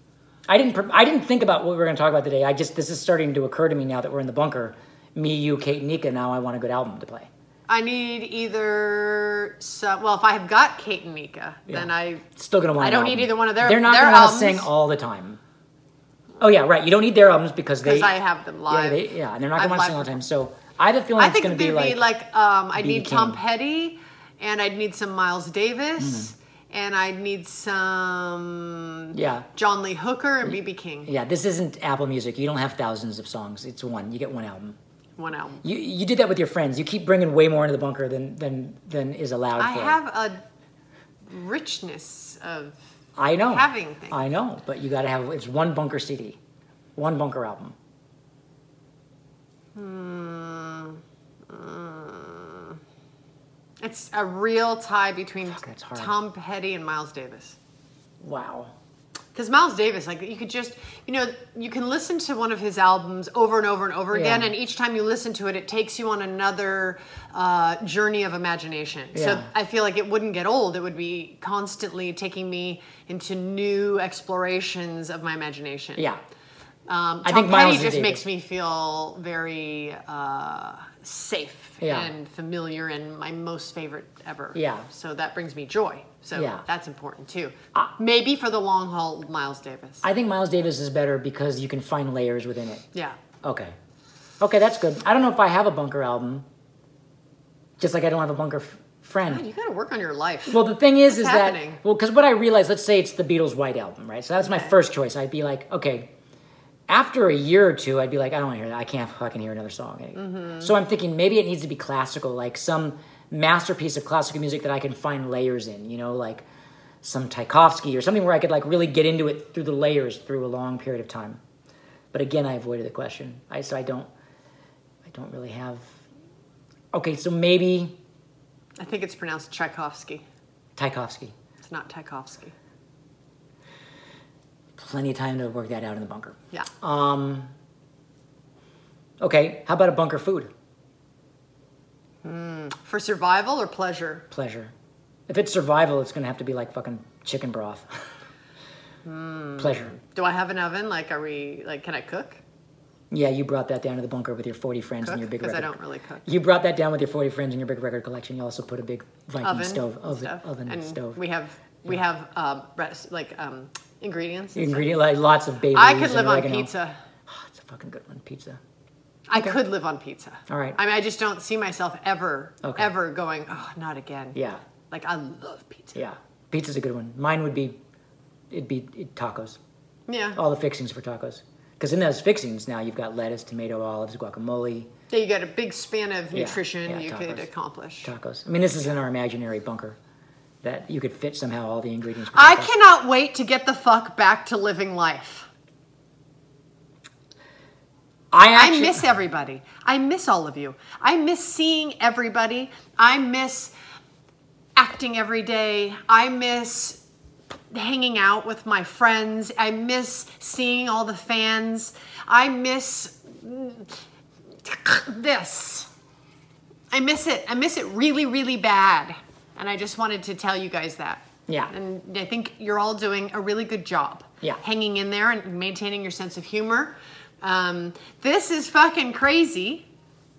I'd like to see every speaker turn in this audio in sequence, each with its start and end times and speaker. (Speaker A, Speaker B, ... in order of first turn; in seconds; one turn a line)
Speaker A: 0.5-7.3
Speaker B: 7.7-12.2
Speaker A: 11.7-15.4
Speaker B: 12.8-14.7
Speaker A: 16.4-18.2
Speaker B: 17.8-20.2
Speaker A: 18.7-22.0
Speaker B: 21.2-31.1
Speaker A: 22.8-23.4
Speaker A: 26.0-26.3
Speaker A: 29.1-29.5
Speaker A: 31.1-34.8
Speaker B: 35.2-35.6
Speaker A: 35.6-40.0
Speaker B: 39.6-40.4
Speaker B: 41.3-42.8
Speaker A: 43.2-46.4
Speaker B: 43.5-44.2
Speaker A: 47.0-47.8
Speaker B: 49.7-52.8
Speaker B: 53.8-57.6
Speaker A: 55.5-56.1
Speaker A: 58.2-58.7
Speaker B: 59.3-76.0
Speaker A: 64.1-64.5
Speaker A: 69.1-69.5
Speaker B: 76.9-90.0
Speaker A: 77.2-78.2
Speaker A: 81.8-82.1
Speaker A: 84.5-84.9
Speaker A: 86.3-86.6
Speaker A: 90.0-92.8
Speaker A: 93.4-93.7
Speaker A: 94.4-96.5
Speaker A: 97.8-99.4
Speaker B: 99.2-101.8
Speaker A: 100.5-106.1
Speaker B: 104.4-104.7
Speaker A: 106.9-116.4
Speaker B: 110.1-110.7
Speaker A: 117.0-121.4
Speaker A: 122.1-124.1
Speaker A: 125.0-125.9
Speaker A: 126.9-128.0
Speaker B: 128.8-130.2
Speaker A: 130.8-131.3
Speaker B: 131.6-132.5
Speaker A: 134.8-137.5
Speaker A: 139.2-140.5
Speaker B: 142.2-144.2
Speaker A: 144.3-144.7
Speaker A: 145.3-148.0
Speaker B: 149.0-152.4
Speaker A: 149.6-149.9
Speaker A: 153.1-161.2
Speaker B: 155.0-156.2
Speaker B: 159.4-164.9
Speaker A: 164.5-166.7
Speaker B: 165.7-167.0
Speaker A: 167.3-168.6
Speaker B: 169.3-176.0
Speaker A: 170.5-170.8
Speaker A: 172.6-172.9
Speaker A: 174.3-174.6
Speaker A: 175.9-177.8
Speaker A: 178.5-179.6
Speaker B: 180.1-180.4
Speaker A: 180.3-184.9
Speaker B: 185.1-188.1
Speaker A: 186.3-187.4
Speaker A: 188.0-190.0
Speaker A: 190.6-192.7
Speaker B: 192.3-195.5
Speaker A: 198.3-199.0
Speaker B: 198.5-203.7
Speaker B: 204.8-207.0
Speaker B: 207.7-213.9
Speaker B: 214.6-215.9
Speaker B: 216.9-229.8